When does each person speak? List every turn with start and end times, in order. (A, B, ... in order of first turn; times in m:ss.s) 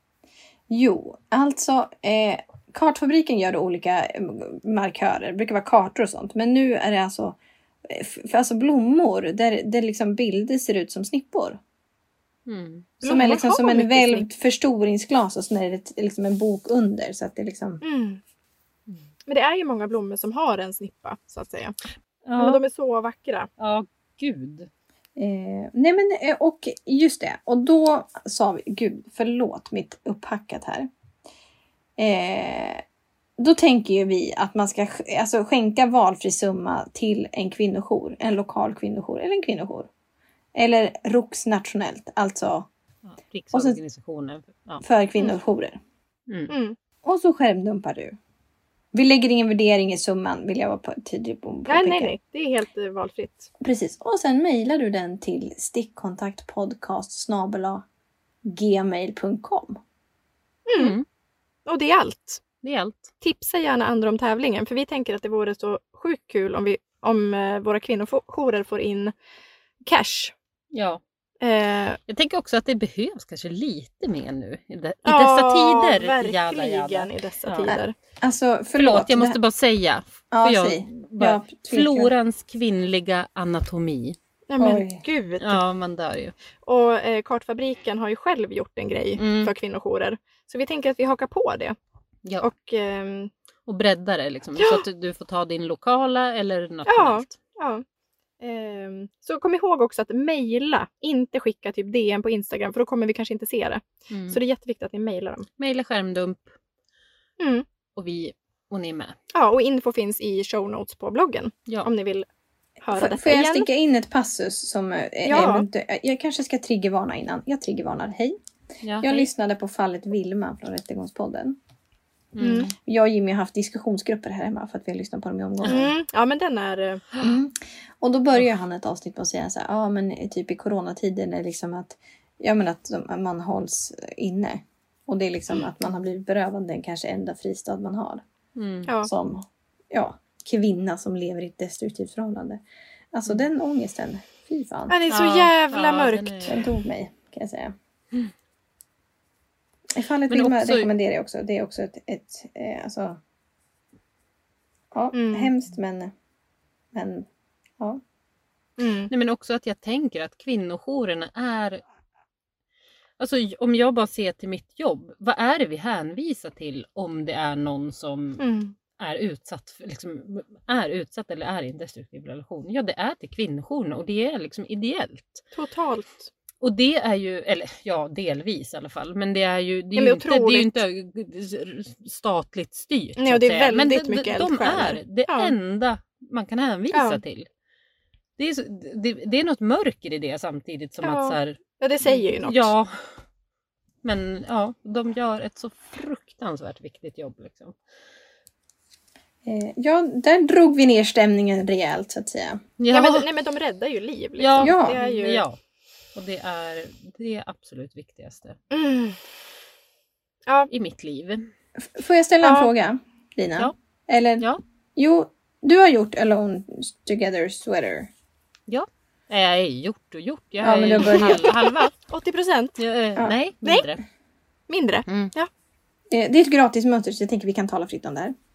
0:00.7-0:11.6 A
0:12.5-0:12.9 B
0:13.0-0:14.3 C
0:13.0-0:17.8 A
0:17.8-0:18.2 C
0:19.3-0:21.8 C
0:22.3-0:22.6 B
0:22.4-0:23.5 C
0:23.6-0:24.7 B
0:25.2-0:30.9 A
0:32.0-0:32.8 A
0:33.4-0:39.9 A
0:40.6-0:42.7 A
0:43.1-0:44.8 B
0:43.5-0:43.8 A
0:44.8-0:45.8 A
0:46.5-0:46.8 C
0:47.0-0:48.2 A
0:48.9-0:52.1 A
0:51.7-0:53.5 C
0:53.6-0:57.8 A
0:58.4-0:59.8 A
1:00.7-1:01.0 C
1:00.8-1:01.0 B
1:01.7-1:02.4 C
1:02.6-1:03.1 B
1:03.2-1:09.1 C
1:09.8-1:10.3 C
1:10.7-1:11.0 B
1:11.4-1:12.0 C
1:12.1-1:17.7 B
1:15.0-1:18.0 C
1:17.7-1:19.4 A
1:18.8-1:24.2 B
1:20.3-1:22.1 A
1:24.5-1:25.6 C
1:24.6-1:25.0 A
1:25.4-1:26.4 B
1:26.6-1:31.8 C
1:29.2-1:29.5 B
1:32.4-1:33.3 C
1:33.7-1:37.4 B
1:34.6-1:34.8 C
1:36.9-1:37.8 C
1:38.4-1:45.5 C
1:44.1-1:44.4 B
1:45.6-1:46.5 B
1:47.4-1:47.6 C
1:48.0-1:49.2 B
1:49.3-1:52.3 C
1:52.8-1:53.7 C
1:52.9-1:58.4 A
1:55.2-1:55.7 C
1:58.8-1:59.3 B
1:59.0-2:01.6 A
2:02.4-2:02.7 B
2:02.4-2:02.7 C
2:02.8-2:05.9 A
2:05.7-2:07.2 C
2:07.2-2:18.2 A
2:18.6-2:18.9 B
2:19.0-2:22.6 A
2:23.1-2:25.0 A
2:24.9-2:26.5 C
2:25.1-2:26.7 B
2:26.5-2:27.8 A
2:29.9-2:33.2 A
2:30.3-2:30.9 B
2:34.9-2:36.1 A
2:35.1-2:35.5 C
2:36.9-2:37.3 A
2:38.8-2:39.1 C
2:39.1-2:41.8 B
2:43.2-2:48.4 B
2:48.4-2:48.8 C
2:49.0-2:55.4 B
2:55.5-2:56.3 C
2:56.6-3:07.5 B
3:00.0-3:00.8 C
3:03.2-3:05.5 C
3:06.9-3:07.2 C
3:08.4-3:12.9 B
3:11.0-3:12.7 C
3:14.0-3:17.8 B
3:19.4-3:22.6 A
3:22.8-3:23.3 B
3:22.9-3:25.4 C
3:24.4-3:25.6 B
3:24.6-3:25.0 A
3:26.2-3:28.6 B
3:28.7-3:29.2 C
3:30.7-3:31.5 B
3:31.8-3:38.1 A
3:32.4-3:32.7 C
3:38.7-3:41.9 B
3:40.6-3:41.5 A
3:41.1-3:42.8 C
3:42.8-3:44.0 B
3:44.7-3:45.5 C
3:45.1-3:45.3 B
3:46.1-3:48.4 A